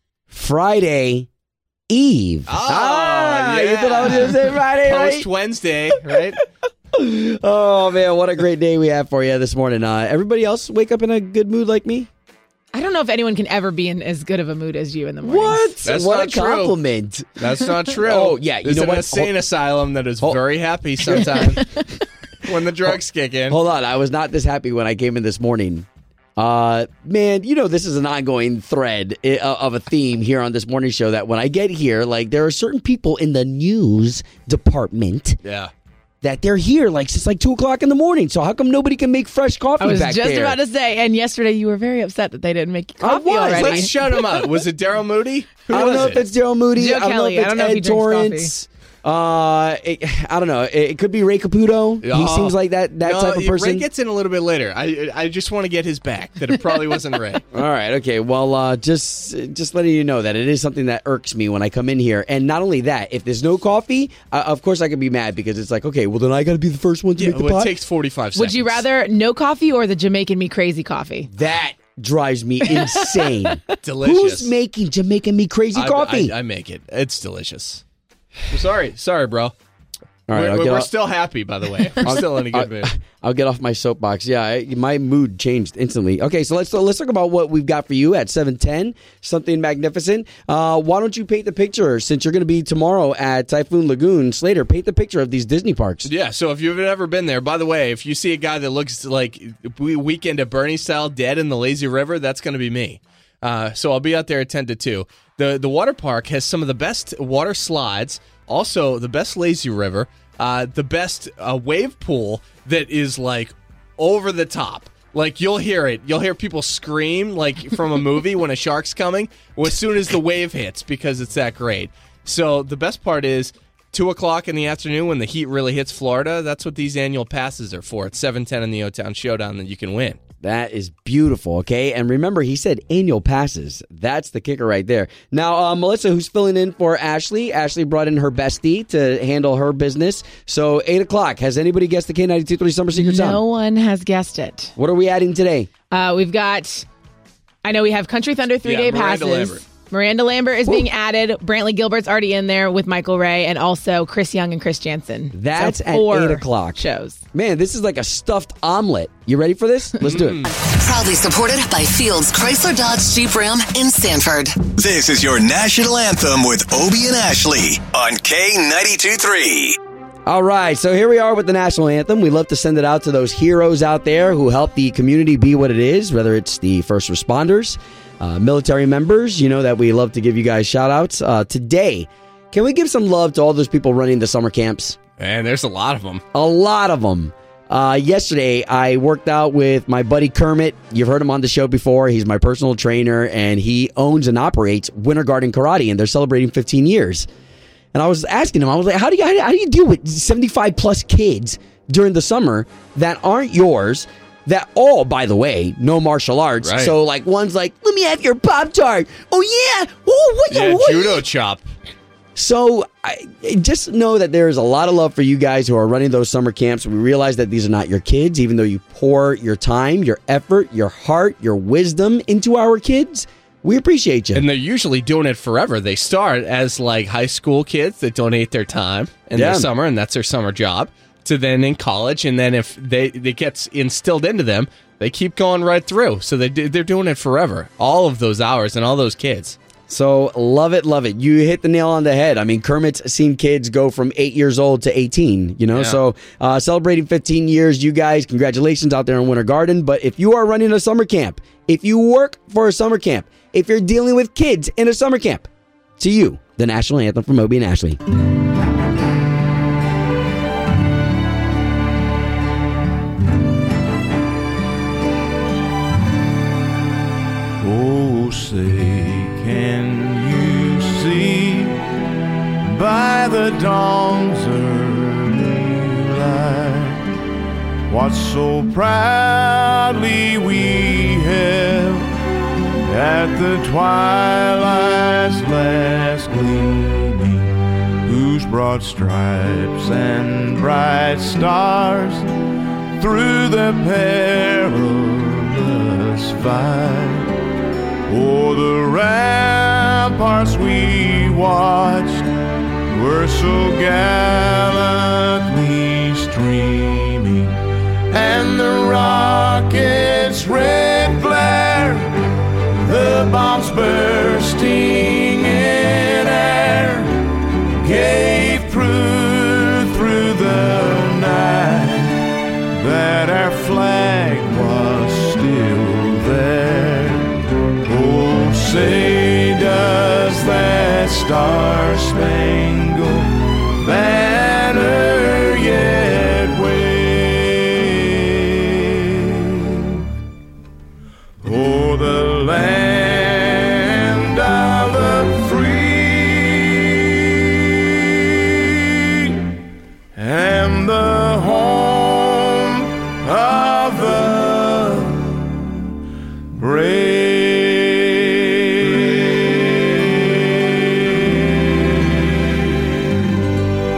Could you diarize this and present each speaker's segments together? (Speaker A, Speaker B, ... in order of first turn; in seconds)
Speaker A: 0.3-1.3, 1.9-5.3, 6.9-12.1, 15.2-19.3, 23.5-35.4, 36.2-40.6, 43.0-43.9, 45.7-53.9, 57.5-67.7, 71.3-76.3, 80.3-80.9, 82.0-96.1, 130.4-143.4, 144.8-145.7, 155.3-156.8, 157.3-160.5, 170.3-185.0, 186.3-197.3, 197.9-211.2, 212.4-224.4, 229.3-229.7, 239.9-258.0
Speaker B: 2.5-6.4, 15.8-16.8, 17.4-21.7, 22.4-23.6, 35.5-35.7, 43.5-46.2, 52.0-57.4, 67.2-68.8, 73.8-74.5, 75.7-77.8, 78.5-79.5, 80.3-82.9, 96.0-130.2, 148.7-149.6, 160.0-160.5, 185.2-186.2, 206.6-206.9, 210.5-211.6, 224.3-239.6, 245.7-246.0
Speaker C: 12.7-15.8, 21.2-21.9, 39.8-44.0, 46.8-48.5, 68.3-71.3, 72.7-73.8, 142.9-144.7, 145.9-146.9, 147.6-157.2
Speaker D: 160.5-164.6
Speaker E: 164.8-169.8
Speaker F: 267.6-271.8, 272.6-277.0, 277.9-282.1, 282.9-287.5, 288.1-292.3, 293.0-297.3, 298.1-302.3, 302.9-307.6, 308.1-312.2, 312.7-322.2, 322.7-327.3, 327.9-340.0, 341.4-349.4, 350.1-355.5, 356.6-361.2